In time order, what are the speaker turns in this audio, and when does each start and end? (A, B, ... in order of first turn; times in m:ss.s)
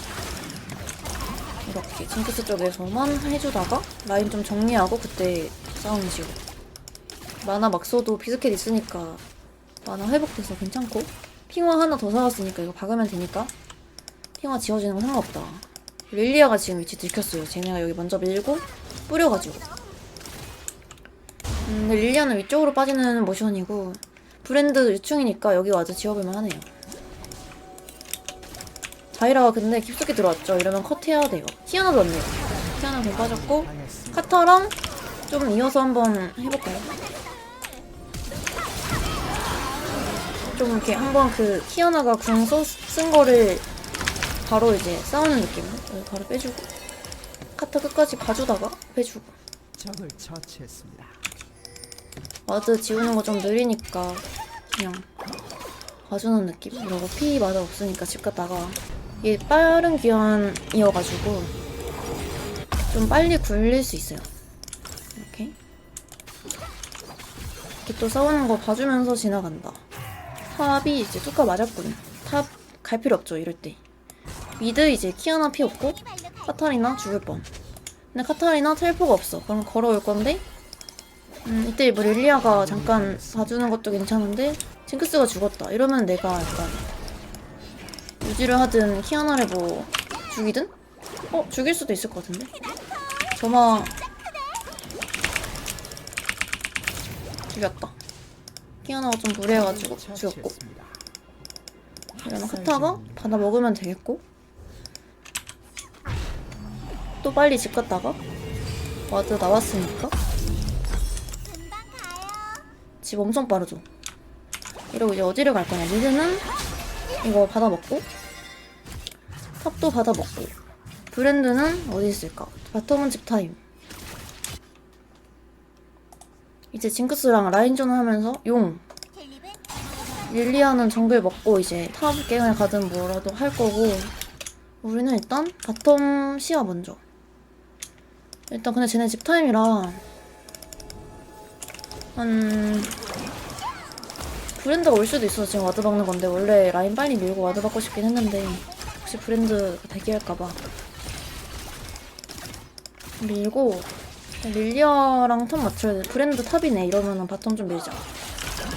0:01.6-0:06.4 A
0:07.4-0:09.2 A
0:09.8-0:13.5 A
0:14.4-0:19.7 A
0:21.6-0:26.7 A
0:29.1-0:36.9 A
0:32.5-0:34.3 B
0:39.9-0:40.6 B
0:40.4-0:43.7 A
0:44.4-0:46.7 A
0:47.6-0:49.3 A
0:49.7-0:51.3 B
0:52.5-0:55.1 A
0:56.1-1:01.5 A
1:02.9-1:04.3 A
1:05.2-1:05.5 A
1:07.8-1:09.8 A
1:10.5-1:13.8 A
1:14.6-1:17.4 A
1:18.1-1:20.4 A
1:21.4-1:26.8 A
1:22.4-1:23.6 B
1:28.2-1:30.7 A
1:31.3-1:32.5 A
1:33.4-1:34.0 A
1:37.5-1:37.9 A
1:38.8-1:40.6 A
1:39.5-1:41.1 B
1:42.1-1:43.4 B
1:42.2-1:44.2 A
1:47.2-1:48.2 A
1:49.1-1:50.2 A
1:53.0-1:53.8 A
1:54.9-1:56.5 A
1:57.2-1:58.1 A
1:59.6-2:00.5 A
2:01.1-2:03.6 A
2:06.7-2:08.8 A
2:10.3-2:14.1 A
2:14.8-2:17.0 A
2:18.5-2:20.0 A
2:22.2-2:23.0 A
2:24.6-2:30.6 A
2:33.2-2:33.9 A
2:34.4-2:38.0 A